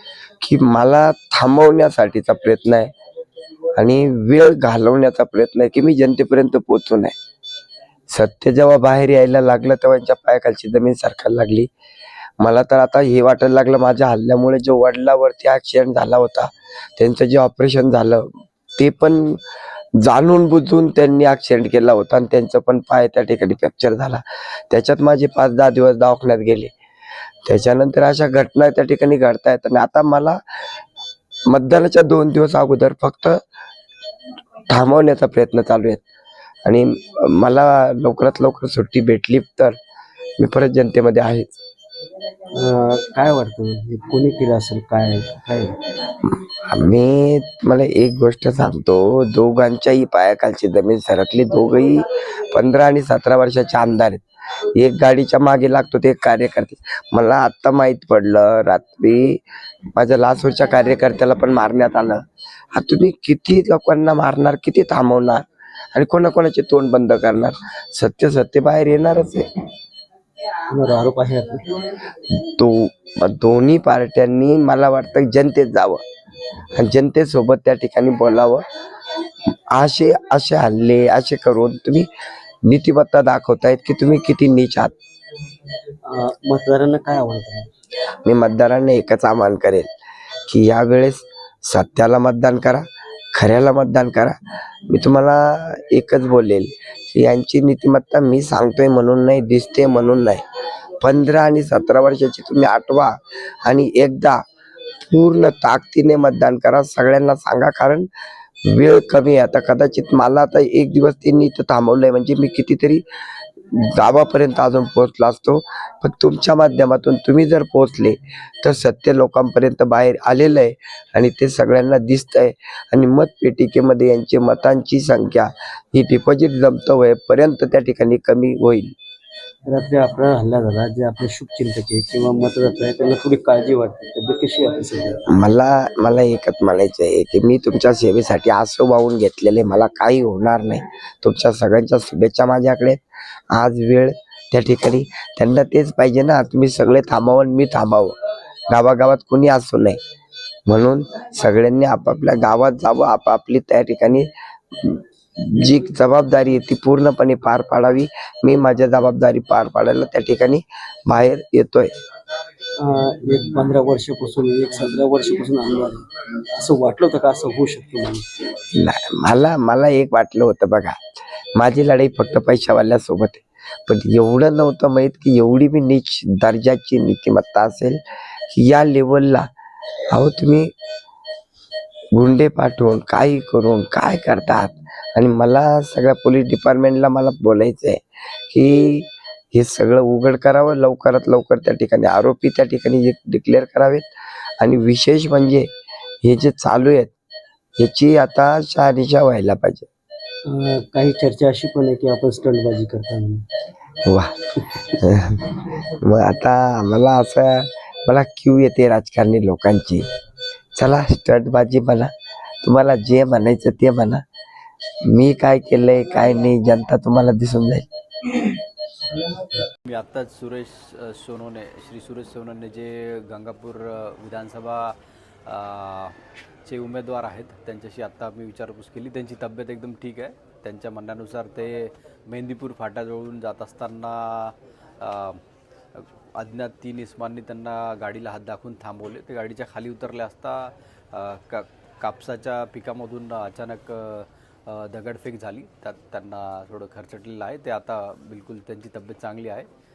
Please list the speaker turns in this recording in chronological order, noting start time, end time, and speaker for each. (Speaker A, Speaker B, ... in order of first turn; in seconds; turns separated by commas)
Speaker A: 0.4-2.9, Speaker A: 3.8-7.2, Speaker A: 8.1-11.7, Speaker A: 12.4-19.4, Speaker A: 20.0-26.7, Speaker A: 27.4-30.4, Speaker A: 31.5-33.4, Speaker A: 34.7-36.0, Speaker A: 36.6-39.8, Speaker A: 40.4-41.6, Speaker B: 42.5-45.8, Speaker A: 46.2-54.2, Speaker A: 54.8-59.4, Speaker A: 60.0-62.2, Speaker A: 62.7-69.5, Speaker B: 70.7-71.8, Speaker A: 72.4-76.0, Speaker A: 76.8-78.6, Speaker A: 79.7-82.1, Speaker A: 82.7-84.9, Speaker B: 86.0-87.7, Speaker A: 88.2-89.9, Speaker A: 90.5-94.4, Speaker A: 94.9-100.4, Speaker A: 101.0-104.4, Speaker A: 105.0-108.1, Speaker A: 108.7-113.0, Speaker A: 113.7-128.9, Speaker B: 129.7-135.2, Speaker A: 135.3-143.0, Speaker A: 143.5-148.2, Speaker A: 148.7-150.0, Speaker A: 150.7-161.9, Speaker B: 162.8-168.2, Speaker A: 168.8-171.0, Speaker A: 171.6-178.0, Speaker A: 178.5-179.5, Speaker A: 180.1-180.7, Speaker A: 182.2-194.1, Speaker A: 194.6-195.7, Speaker A: 196.2-197.1, Speaker A: 197.8-199.9, Speaker B: 200.5-203.4, Speaker A: 204.1-210.1, Speaker A: 210.8-212.1, Speaker A: 212.6-214.2, Speaker A: 215.1-218.6, Speaker A: 219.1-219.5, Speaker C: 219.8-224.9, Speaker C: 225.5-235.4, Speaker C: 235.9-249.7